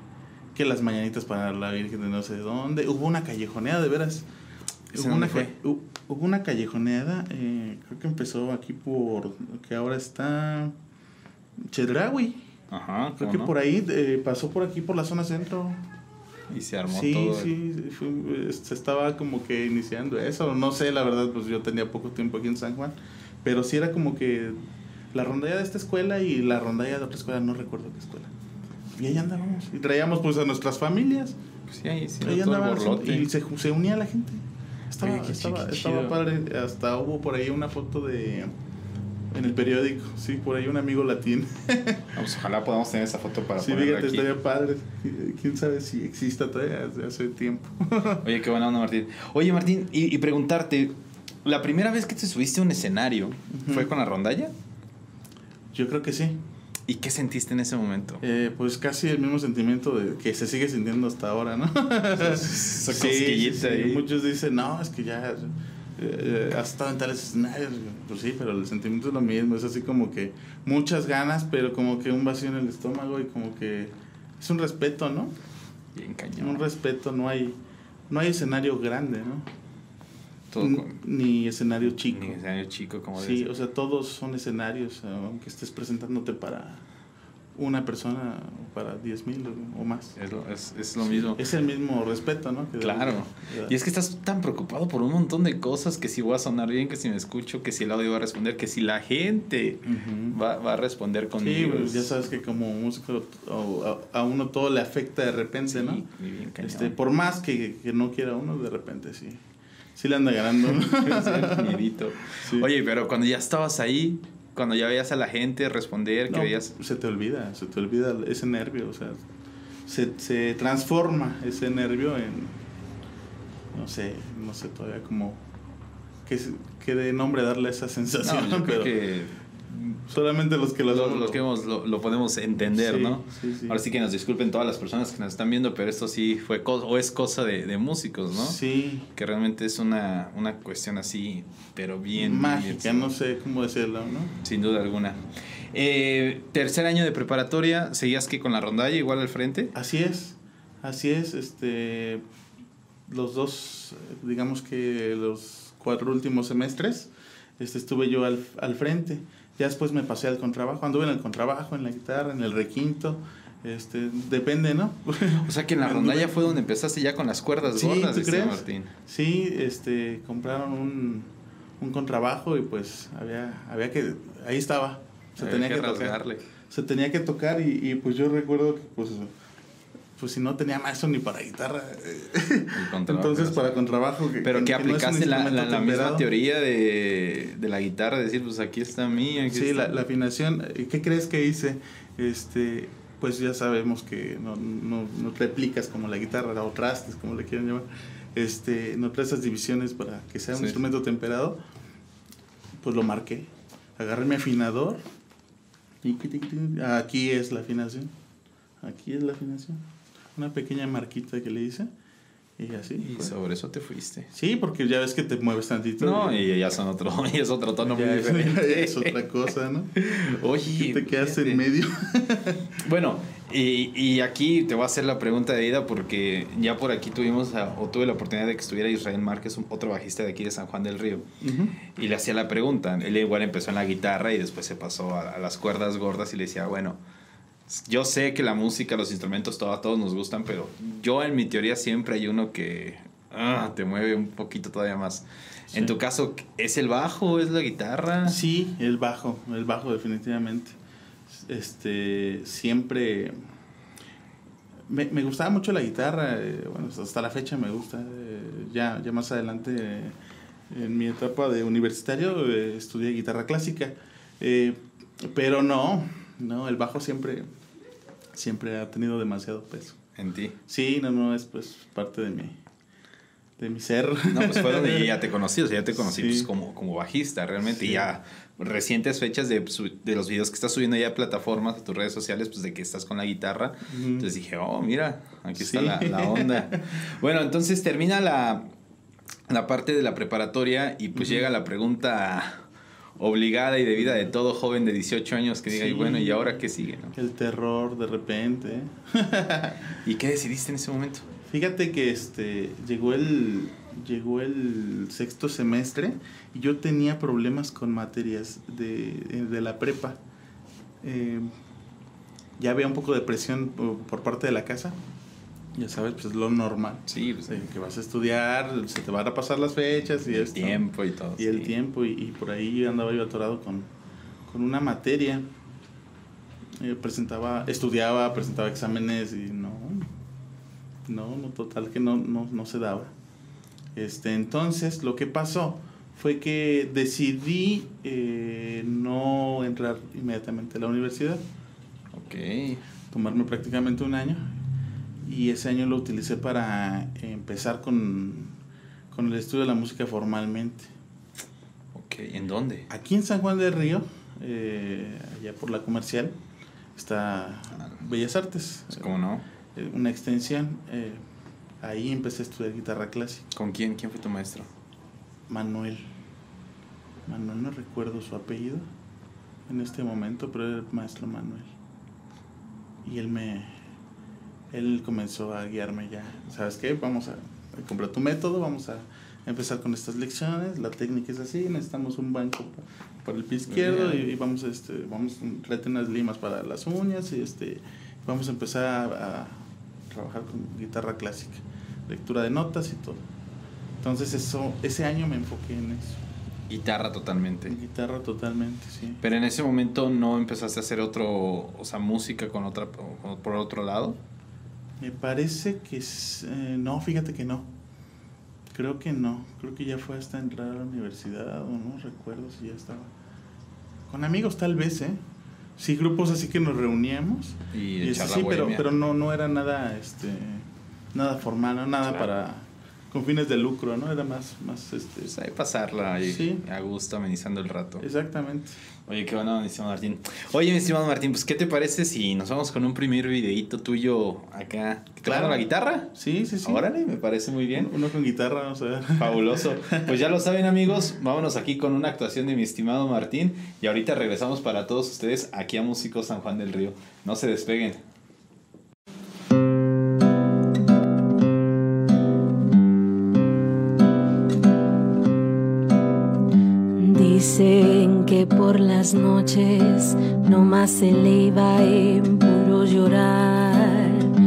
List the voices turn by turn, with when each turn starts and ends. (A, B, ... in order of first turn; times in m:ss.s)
0:00.5-0:04.2 A
0:04.9-0:05.6 B
0:04.9-0:10.7 A
0:11.7-0:12.4 A
0:12.7-0:13.5 B
0:13.2-0:15.8 A
0:16.5-0:17.5 B
0:16.9-0:28.3 A
0:29.0-0:31.4 A
0:31.7-0:33.3 B
0:32.2-0:38.5 A
0:34.9-0:36.2 B
0:39.3-0:42.2 A
0:42.1-0:44.3 B
0:43.6-0:48.2 A
0:48.2-0:54.5 B
0:53.5-0:53.9 A
0:55.7-0:56.4 A
0:56.9-0:58.2 B
0:58.2-1:15.3 A
1:02.1-1:04.0 B
1:15.9-1:16.6 B
1:16.4-1:17.6 A
1:18.1-1:19.5 A
1:20.5-1:20.9 B
1:20.6-1:22.4 A
1:21.8-1:23.5 B
1:23.2-1:26.8 A
1:27.5-1:30.2 A
1:30.2-1:31.4 B
1:31.0-1:33.7 A
1:32.8-1:42.2 B
1:39.8-1:40.4 A
1:41.4-1:46.0 A
1:45.7-1:47.0 B
1:46.6-1:49.4 A
1:50.0-1:51.8 A
1:50.6-1:56.7 B
1:52.3-1:52.7 A
1:56.3-1:59.2 A
1:59.9-2:02.6 A
2:03.7-2:05.4 A
2:06.2-2:08.9 A
2:08.2-2:10.0 B
2:10.1-2:11.4 A
2:10.9-2:18.6 B
2:12.7-2:13.8 A
2:18.3-2:19.1 A
2:19.1-2:23.1 B
2:22.2-2:24.4 A
2:24.4-2:25.2 B
2:25.7-2:29.7 B
2:29.7-2:32.2 A
2:33.1-2:46.6 A
2:45.4-2:48.9 B
2:47.6-2:51.3 A
2:51.8-2:59.3 A
2:55.4-2:56.4 B
3:00.2-3:06.3 A
3:02.7-3:03.7 B
3:04.4-3:09.9 B
3:09.5-3:21.6 A
3:22.8-3:25.0 A
3:26.0-3:28.1 A
3:28.8-3:29.8 A
3:30.4-3:31.9 A
3:32.6-3:33.3 A
3:33.0-3:34.3 B
3:34.3-3:36.4 A
3:36.0-3:39.2 B
3:37.8-3:40.0 A
3:39.9-3:41.6 B
3:40.6-3:42.8 A
3:42.8-3:51.3 B
3:51.4-3:51.8 A
3:51.8-3:57.0 B
3:57.7-4:08.4 B
4:05.7-4:06.0 A
4:08.2-4:10.8 A
4:11.3-4:13.4 A
4:14.9-4:20.2 A
4:20.7-4:27.5 A
4:28.3-4:30.0 A
4:30.2-4:30.6 B
4:30.7-4:32.6 A
4:33.6-4:35.1 A
4:34.3-4:48.7 B
4:35.9-4:36.5 A
4:37.6-4:38.1 A
4:43.9-4:44.3 A
4:45.6-4:47.0 A
4:49.5-4:52.6 B
4:51.1-4:51.5 A
4:53.2-4:57.1 B
4:54.0-4:54.2 A
4:55.7-5:00.0 A
5:00.0-5:01.3 B
5:01.5-5:10.2 A
5:11.0-5:11.5 A
5:12.6-5:15.0 A
5:15.7-5:20.8 A
5:17.1-5:17.6 B
5:20.3-5:21.7 B
5:21.4-5:23.9 A
5:24.5-5:25.5 A
5:26.8-5:30.1 A
5:31.1-5:33.1 A
5:34.0-5:41.4 A
5:42.1-5:42.8 B
5:43.1-5:44.5 A
5:45.2-5:48.6 A
5:49.1-5:50.9 A
5:51.9-5:52.8 B
5:52.9-5:56.4 A
5:57.0-5:59.2 A
5:58.9-5:59.4 B
5:59.7-6:01.2 A
6:01.8-6:03.5 A
6:03.5-6:04.7 B
6:05.5-6:06.1 A
6:07.3-6:08.9 A
6:09.7-6:11.7 A
6:13.0-6:13.8 A
6:14.7-6:33.2 A
6:23.7-6:24.3 B
6:34.0-6:36.2 A
6:36.7-6:37.8 B
6:37.6-6:39.2 A
6:39.2-6:44.2 B
6:45.0-6:47.7 A
6:48.7-6:53.1 A
6:54.1-6:55.2 A
6:55.8-7:05.3 A
6:57.7-6:58.9 B
7:02.0-7:02.3 B
7:05.3-7:08.0 B
7:06.2-7:06.6 A
7:08.0-7:08.8 A
7:09.1-7:16.1 B
7:15.2-7:16.8 A
7:16.6-7:17.9 B
7:17.7-7:20.2 A
7:19.2-7:28.0 B
7:36.9-7:44.3 C